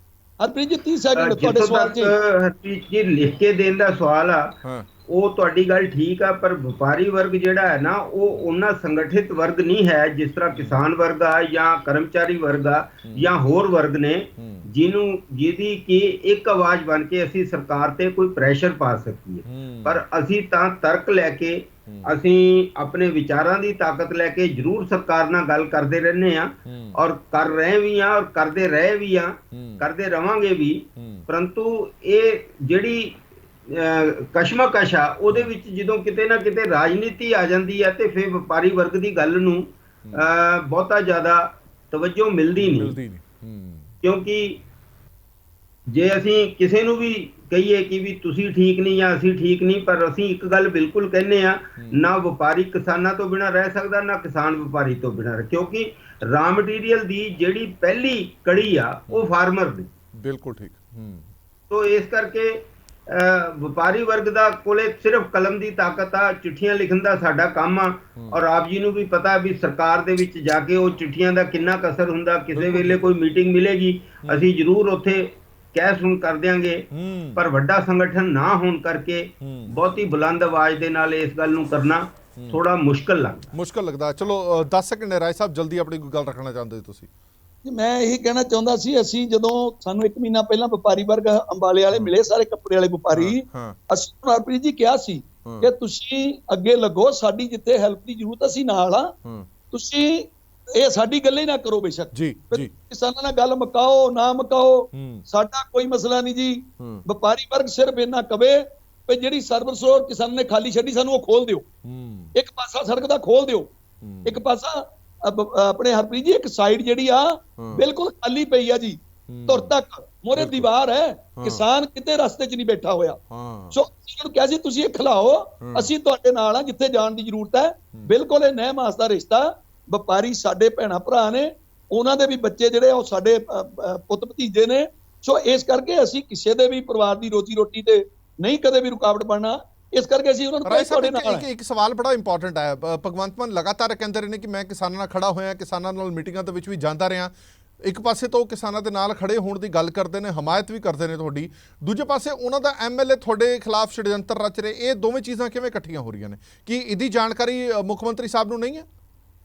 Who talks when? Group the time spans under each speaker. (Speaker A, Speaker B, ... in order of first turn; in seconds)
Speaker A: 0.4-2.1, 87.6-99.1, 99.7-111.7, 112.3-113.7, 114.2-123.2, 123.7-141.4
Speaker B: 1.1-4.6, 5.1-43.0, 44.0-44.6, 45.9-59.9, 61.7-83.5
Speaker C: 10.5-10.8, 13.0-13.3, 14.4-14.7, 19.4-20.0, 21.9-22.1, 26.6-27.0, 29.5-29.8, 30.9-31.2, 42.6-43.9, 60.1-61.3, 72.5-73.1, 76.9-77.4, 79.4-79.7, 83.5-87.1, 93.1-93.8, 95.4-95.7, 99.2-99.5, 102.1-102.7, 104.9-105.2, 106.8-107.0, 111.8-112.3, 114.0-114.4, 119.3-119.7, 120.3-120.7, 121.4-121.6, 123.3-123.8, 125.6-125.9, 140.7-147.3, 147.8-158.8